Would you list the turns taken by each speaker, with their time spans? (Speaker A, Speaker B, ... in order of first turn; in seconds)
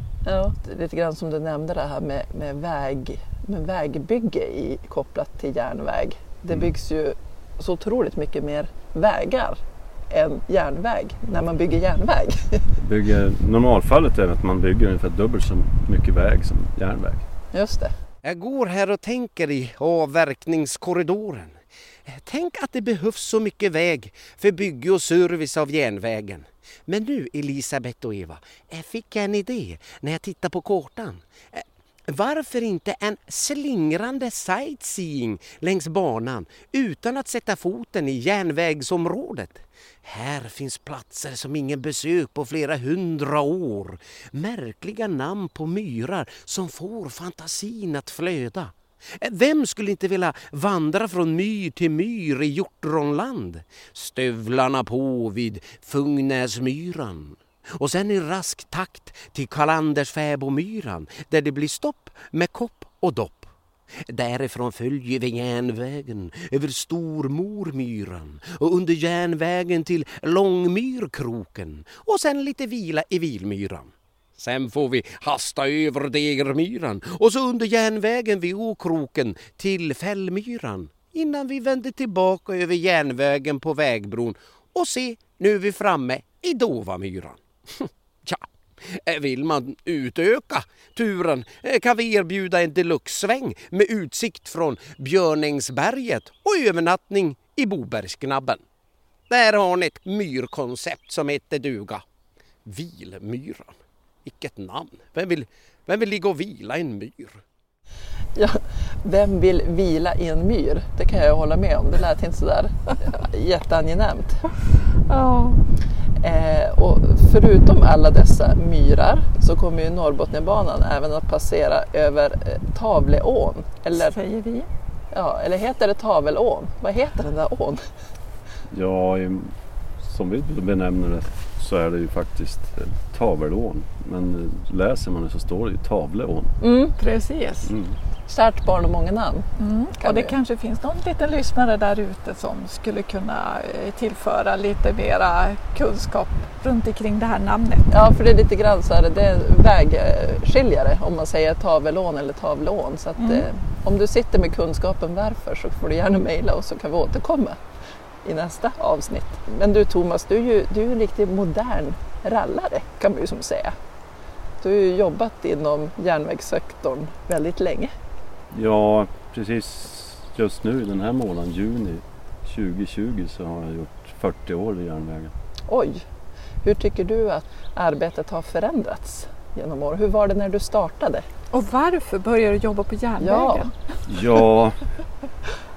Speaker A: 0.2-12.7, 17.5-17.9, 108.3-114.5, 116.2-124.2, 125.1-127.8, 136.6-136.9, 138.3-140.3, 147.9-157.6, 158.2-163.7, 164.6-167.9, 175.7-176.1, 176.6-181.3, 183.2-183.7
Speaker B: 12.8-17.2, 128.7-136.5, 137.6-138.0, 168.5-175.3, 184.1-184.8
Speaker C: 18.2-63.5, 64.0-98.6, 99.3-102.0, 102.6-107.4
Speaker D: 115.1-115.6, 123.9-124.7, 137.0-137.7, 139.6-147.9, 153.2-153.5, 181.5-183.9